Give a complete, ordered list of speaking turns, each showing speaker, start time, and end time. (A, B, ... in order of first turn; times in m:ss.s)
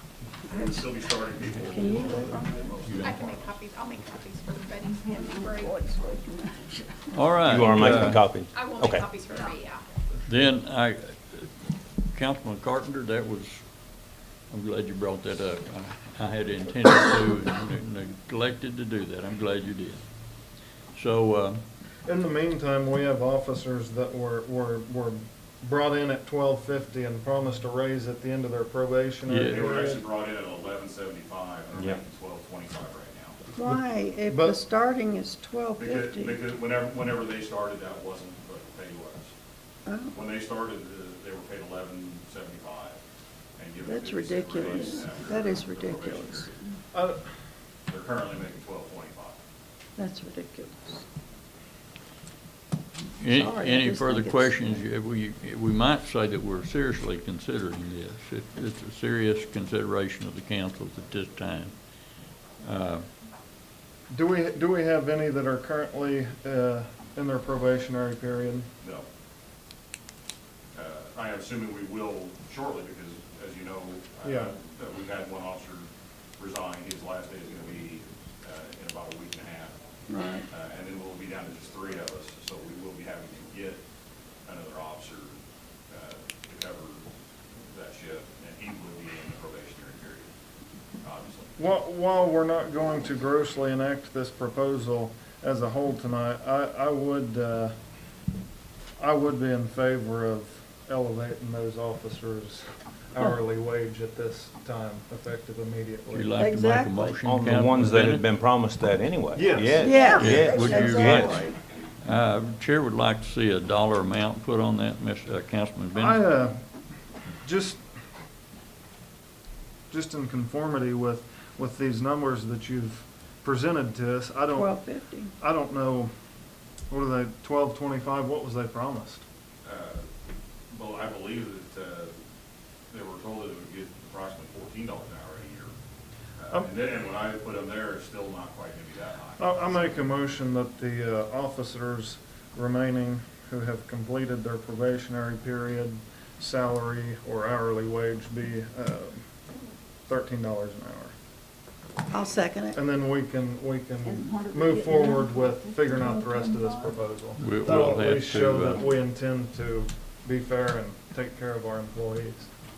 0:00.4-0:03.6 A
0:01.7-0:02.7 B
0:02.8-0:05.8 C
0:02.8-0:03.2 D
0:05.1-0:07.1 B
0:07.1-0:08.2 D
0:07.4-0:09.1 E
0:08.2-0:09.8 C
0:10.2-0:13.6 D
0:14.5-0:20.2 D
0:20.9-0:21.6 D
0:22.0-0:30.0 F
0:29.2-0:29.6 D
0:29.5-0:33.4 A
0:31.7-0:32.0 E
0:33.6-0:36.4 B
0:33.6-0:34.6 F
0:35.8-0:39.3 A
0:39.8-0:40.2 B
0:40.1-0:43.0 A
0:43.6-0:46.6 A
0:43.8-0:46.6 B
0:46.9-0:47.2 F
0:47.9-0:49.4 A
0:50.0-0:51.0 B
0:53.2-1:01.8 D
0:53.3-0:54.7 B
1:02.6-1:03.1 D
1:04.1-1:08.7 F
1:08.8-1:09.1 A
1:10.7-1:19.8 A
1:14.2-1:14.5 F
1:20.1-1:20.4 B
1:20.4-1:23.8 A
1:24.4-1:25.4 A
1:25.9-1:27.0 A
1:27.7-1:30.3 A
1:31.0-1:31.6 A
1:31.6-1:37.7 F
1:39.0-1:46.4 F
1:46.1-1:48.2 D
1:46.4-1:47.1 B
1:47.2-1:51.5 E
1:49.3-1:50.2 F
1:49.8-1:51.5 B
1:50.0-1:51.5 D
1:52.0-1:56.2 D
1:55.9-1:56.6 F
1:57.4-1:57.8 F
1:59.9-2:06.1 F
2:04.5-2:05.3 B
2:06.9-2:09.2 F
2:09.6-2:10.0 A
2:10.7-2:12.2 A
2:12.9-2:15.7 A
2:16.4-2:19.8 A
2:19.4-2:29.2 F
2:30.1-2:31.1 F
2:32.1-2:32.8 B
2:32.7-2:42.5 F
2:34.0-2:37.0 B
2:37.4-2:38.9 D